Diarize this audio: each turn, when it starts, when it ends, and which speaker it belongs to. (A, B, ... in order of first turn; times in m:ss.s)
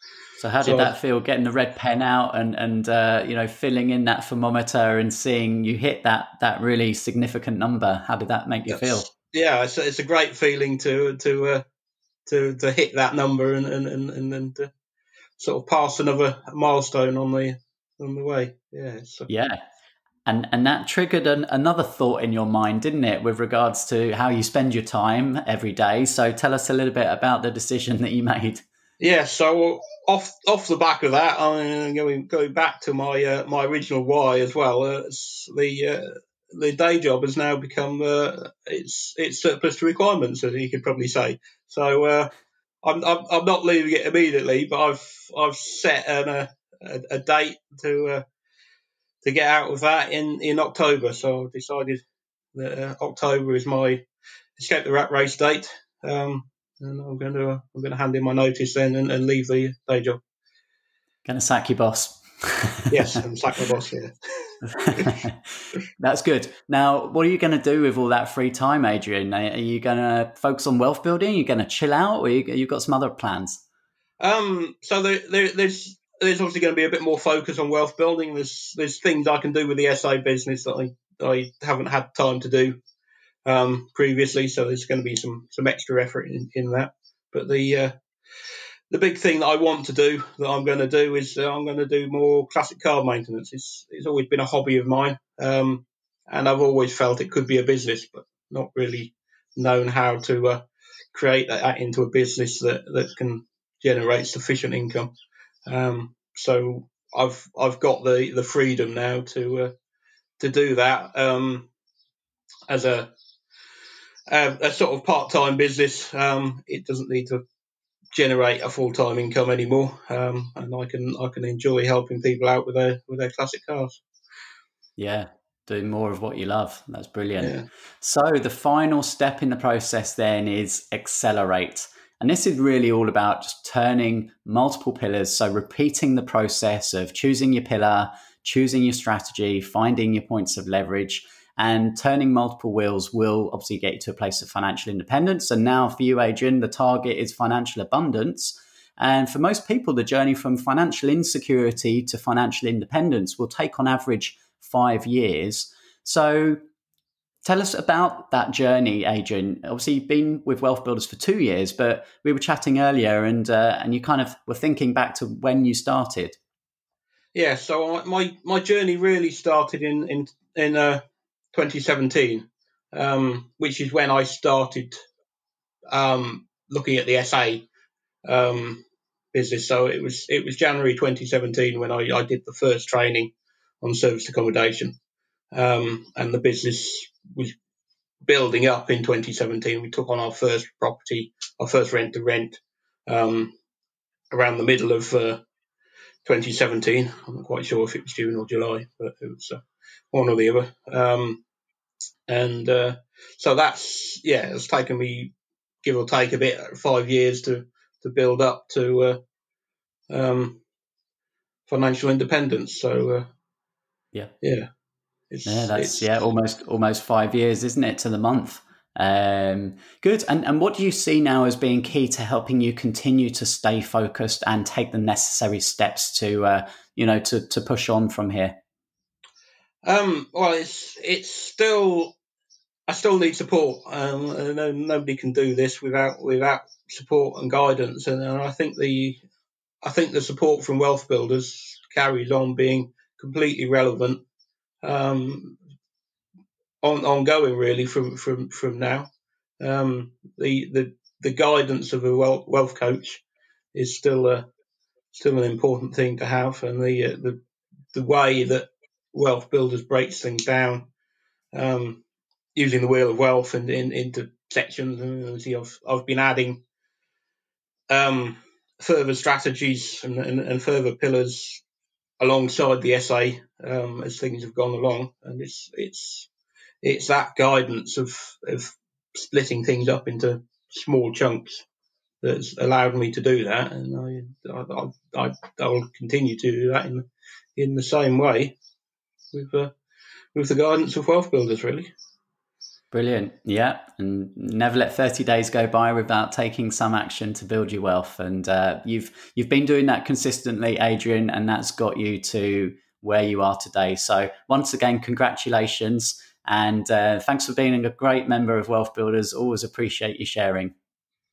0:00.4-0:09.1 A
0:00.6-0:00.9 B
0:08.7-0:11.6 B
0:12.3-0:14.7 B
0:15.4-0:19.3 B
0:19.3-0:19.6 A
0:20.3-0:28.6 A
0:29.0-0:42.3 B
0:42.8-0:48.2 B
0:49.2-0:52.0 B
0:52.5-0:54.0 B
0:54.6-1:00.2 B
1:01.3-1:03.2 A
1:02.9-1:05.1 B
1:04.7-1:13.6 A
1:14.2-1:22.8 B
1:23.5-1:27.9 B
1:28.9-1:40.6 B
1:41.1-1:45.1 B
1:45.7-1:49.7 B
1:50.4-1:51.7 B
1:52.7-1:53.1 B
1:54.3-1:57.4 B
1:58.1-2:04.0 B
2:05.0-2:36.6 A
2:07.4-2:07.6 B
2:37.4-2:46.4 A
2:47.3-2:51.0 B
2:51.5-2:55.0 B
2:55.9-2:57.7 B
2:58.3-2:58.8 B
2:59.3-3:03.3 B
3:03.8-3:05.0 B
3:05.5-3:07.5 B
3:08.2-3:13.5 B
3:14.3-3:15.4 B
3:16.2-3:19.6 B
3:20.1-3:21.4 B
3:22.3-3:29.2 B
3:30.1-3:30.6 B
3:31.7-3:33.3 B
3:34.4-3:34.7 B
3:35.3-3:36.2 B
3:35.5-3:48.6 A
3:49.8-3:52.2 B
3:52.9-3:59.2 B
3:59.8-4:04.2 B
4:04.8-4:05.6 B
4:06.8-4:09.1 B
4:09.6-4:13.2 B
4:13.7-4:14.5 B
4:15.1-4:17.4 B
4:17.9-4:20.9 B
4:21.5-4:22.0 B
4:22.6-4:26.6 B
4:27.9-4:31.6 B
4:32.2-4:36.3 B
4:36.8-4:41.7 B
4:42.2-4:47.0 B
4:47.6-4:48.6 B
4:49.3-4:49.7 B
4:50.3-4:51.9 B
4:52.9-5:10.7 A